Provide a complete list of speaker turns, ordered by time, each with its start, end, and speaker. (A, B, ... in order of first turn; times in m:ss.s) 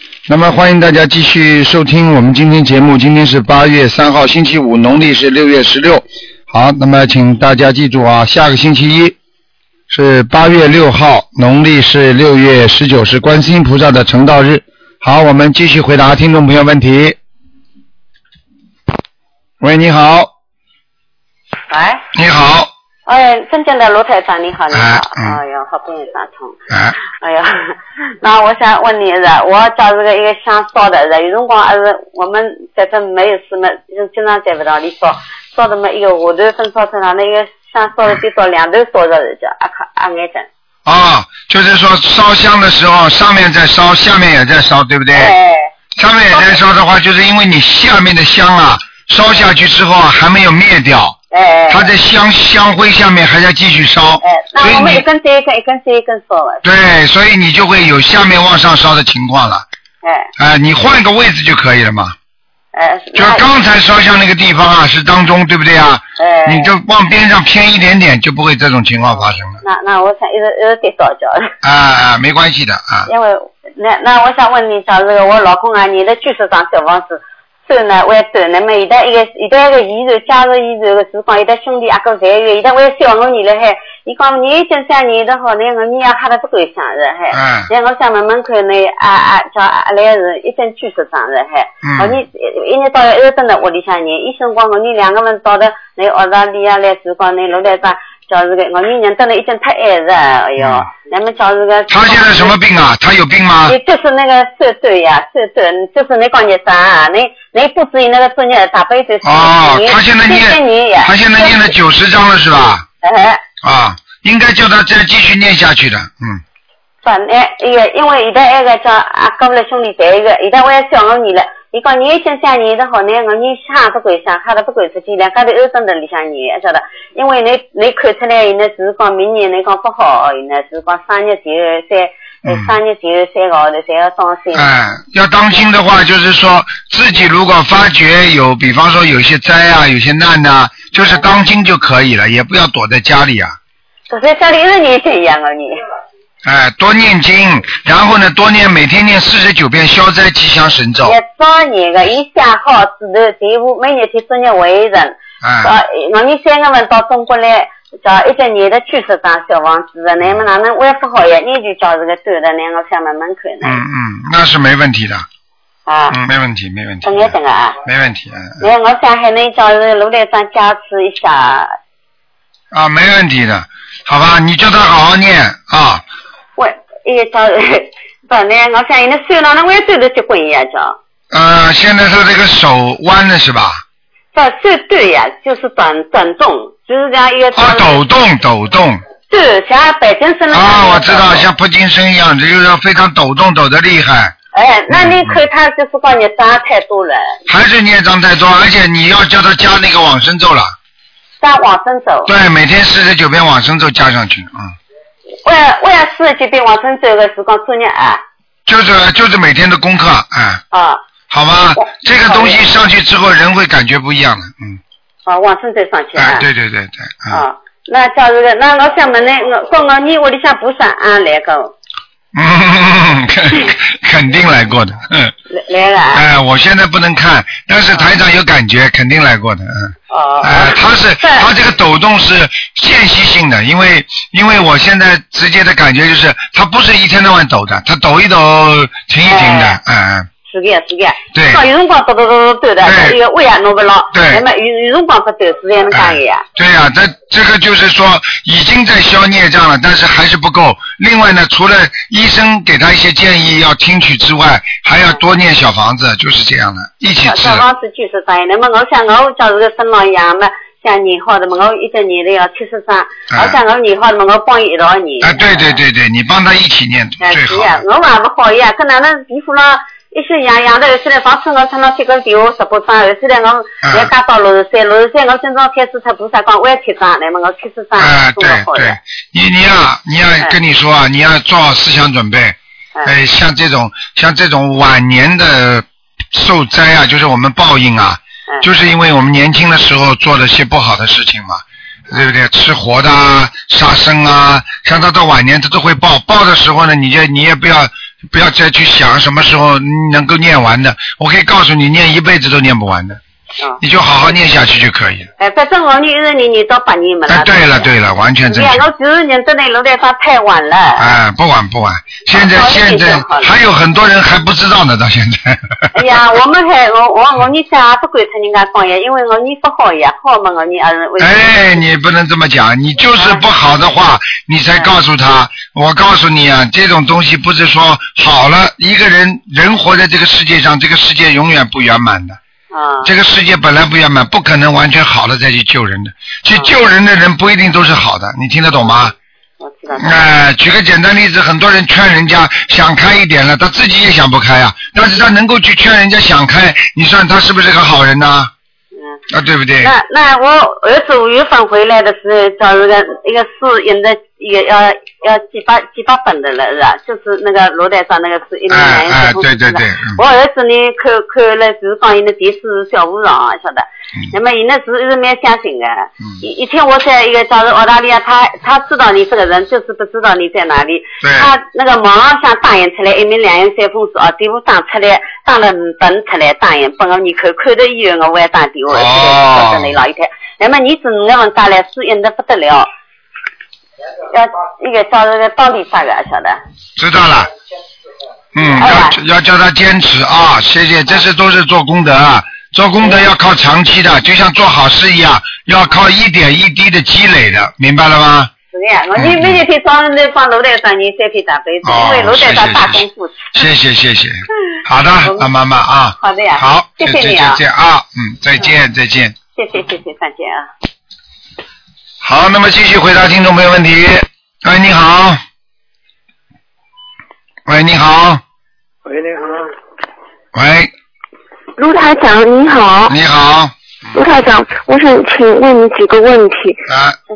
0:00.3-0:09.2 A
0:09.9-0:17.2 A
0:19.6-0:20.3 A
0:21.7-0:22.0 B
0:22.1-0:22.7 A
0:23.1-0:40.5 B
0:24.7-0:25.4 A
0:26.7-0:27.0 A
0:40.9-0:45.3 A
0:45.1-0:45.7 B
0:46.0-0:51.2 A
0:46.3-0:46.6 B
0:51.3-0:51.9 B
0:51.7-0:55.0 A
0:54.2-0:56.6 B
0:56.6-0:59.6 A
1:00.0-1:00.3 B
1:00.4-1:02.2 A
1:02.7-1:03.5 B
1:03.2-1:09.6 A
1:06.2-1:06.7 B
1:09.6-1:11.6 B
1:11.6-1:13.1 A
1:13.1-1:42.6 B
1:27.3-1:27.7 A
1:31.8-1:32.2 A
1:40.6-1:40.9 A
1:41.9-1:43.8 A
1:43.7-1:51.7 B
1:49.2-1:52.8 A
1:53.0-1:53.4 B
1:53.6-1:56.4 A
1:57.0-2:14.7 B
2:12.5-2:12.7 A
2:14.6-2:23.6 A
2:24.1-2:25.8 B
2:26.4-2:31.2 A
2:31.0-2:43.8 B
2:35.4-2:35.7 A
2:43.6-2:45.2 A
2:45.9-2:46.2 B
2:46.1-2:47.3 A
2:47.0-2:47.8 B
2:47.8-2:48.6 A
2:48.6-2:51.8 B
2:52.7-2:56.0 A
2:56.6-3:01.0 B
3:01.3-3:03.8 A
3:04.3-3:08.0 B
3:07.6-3:09.0 A
3:09.3-3:11.5 B
3:10.5-3:14.3 A
3:14.5-3:17.4 B
3:14.9-3:15.4 A
3:17.5-3:20.7 A
3:21.4-3:22.3 B
3:22.3-3:24.7 A
3:25.4-3:28.2 B
3:28.7-3:30.6 A
3:30.7-3:31.0 B
3:31.3-3:34.8 A
3:31.8-3:32.6 B
3:35.3-3:36.5 B
3:36.2-3:37.4 A
3:37.3-3:41.7 B
3:42.4-3:45.3 A
3:45.5-3:46.2 B
3:46.1-4:00.3 A
3:50.1-3:51.5 B
3:59.3-3:59.8 B
4:00.5-4:06.4 B
4:01.3-4:01.6 A
4:02.8-4:03.2 A
4:04.1-4:04.4 A
4:05.9-4:17.6 A
4:17.2-4:25.8 B
4:23.3-4:23.6 A
4:25.2-4:27.8 A
4:27.2-4:39.0 B
4:33.8-4:34.1 A
4:38.0-5:03.2 A
5:03.8-5:05.3 A
5:05.4-5:07.9 B
5:07.3-5:08.8 A
5:08.5-5:11.2 B
5:11.0-5:15.9 A
5:12.3-5:13.5 B
5:15.9-5:21.8 B
5:21.2-5:32.4 A
5:23.2-5:23.4 B
5:32.7-5:33.1 B
5:33.0-5:39.1 A
5:39.6-5:40.2 B
5:40.0-5:48.5 A
5:49.3-5:49.9 A
5:49.8-6:22.9 B
5:58.7-6:00.2 A
6:11.2-6:11.5 A
6:18.9-6:19.9 A
6:24.3-6:26.6 B
6:27.0-6:27.5 A
6:28.6-6:38.5 A
6:28.6-6:29.2 B
6:33.0-6:33.3 B
6:38.7-6:43.5 B
6:39.2-6:39.6 A
6:41.8-6:43.0 A
6:43.6-6:49.4 A
6:46.2-6:47.6 B
6:49.6-6:50.7 B
6:52.2-6:55.4 A
6:57.7-6:58.4 A
7:00.5-7:00.9 A
7:01.8-7:03.2 C
7:03.1-7:03.7 A
7:04.1-7:06.8 C
7:06.9-7:07.2 A